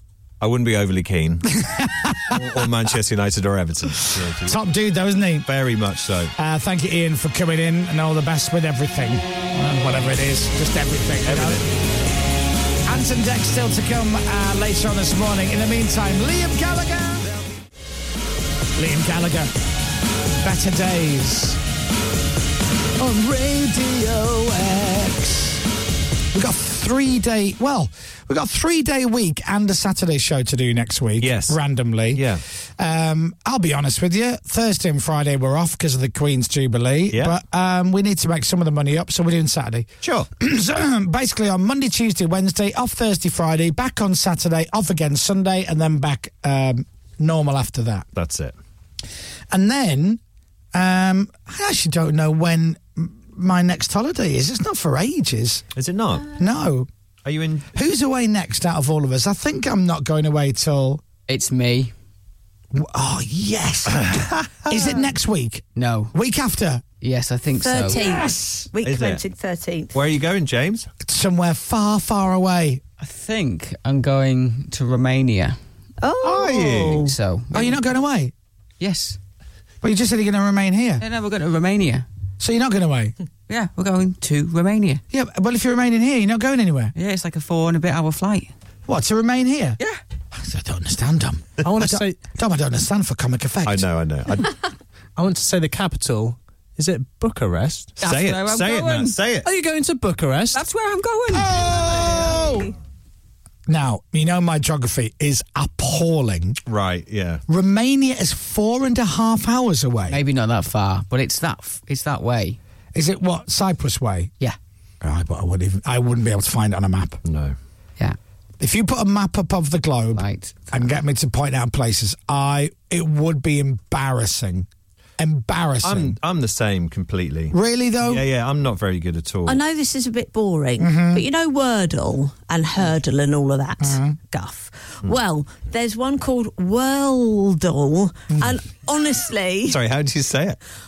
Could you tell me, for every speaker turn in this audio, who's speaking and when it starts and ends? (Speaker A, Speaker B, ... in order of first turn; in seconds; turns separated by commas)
Speaker A: 0.4-1.5, Speaker B: 1.6-2.6, Speaker A: 2.3-4.6, Speaker B: 4.1-5.5, Speaker A: 5.4-6.3, Speaker B: 6.3-11.6, Speaker A: 11.2-11.6, Speaker B: 12.8-17.3, Speaker B: 18.8-19.5, Speaker B: 20.4-21.6, Speaker B: 23.0-25.6, Speaker B: 26.3-32.3, Speaker A: 31.2-31.6, Speaker A: 32.1-32.4, Speaker B: 32.8-48.1, Speaker A: 37.1-37.4, Speaker A: 40.0-40.3, Speaker A: 48.1-48.5, Speaker B: 49.5-50.2, Speaker B: 50.7-55.6, Speaker A: 55.7-56.3, Speaker B: 56.3-56.9, Speaker A: 57.2-57.7, Speaker B: 57.7-61.0, Speaker C: 61.3-61.9, Speaker B: 62.7-66.8, Speaker C: 65.7-66.1, Speaker C: 67.0-68.0, Speaker D: 67.6-69.9, Speaker B: 67.9-68.7, Speaker A: 68.8-69.2, Speaker A: 69.9-70.9, Speaker B: 71.0-72.8, Speaker C: 73.0-75.6, Speaker D: 76.0-77.1, Speaker A: 76.2-77.1, Speaker C: 76.8-77.8, Speaker B: 77.5-78.3, Speaker C: 78.8-79.2, Speaker B: 79.8-81.0, Speaker C: 81.0-82.0, Speaker B: 82.4-83.1, Speaker C: 83.5-85.0, Speaker B: 85.1-86.9, Speaker C: 86.9-88.5, Speaker B: 88.9-89.8, Speaker B: 90.3-93.8, Speaker E: 91.6-92.2, Speaker A: 93.6-94.6, Speaker E: 95.2-98.0, Speaker C: 98.0-99.2, Speaker A: 98.0-99.5, Speaker E: 99.4-100.6, Speaker C: 100.5-102.3, Speaker B: 101.3-102.7, Speaker D: 102.0-102.5, Speaker B: 103.7-106.6, Speaker A: 106.7-107.4, Speaker B: 107.5-110.2, Speaker C: 110.1-112.6, Speaker B: 112.9-114.3, Speaker B: 115.0-117.2, Speaker A: 117.2-117.5, Speaker B: 118.6-124.7, Speaker C: 120.1-120.7, Speaker B: 125.2-126.2, Speaker A: 125.8-129.6, Speaker B: 127.5-128.2, Speaker D: 129.4-139.8, Speaker B: 130.8-131.2, Speaker B: 133.8-134.2, Speaker A: 139.7-140.6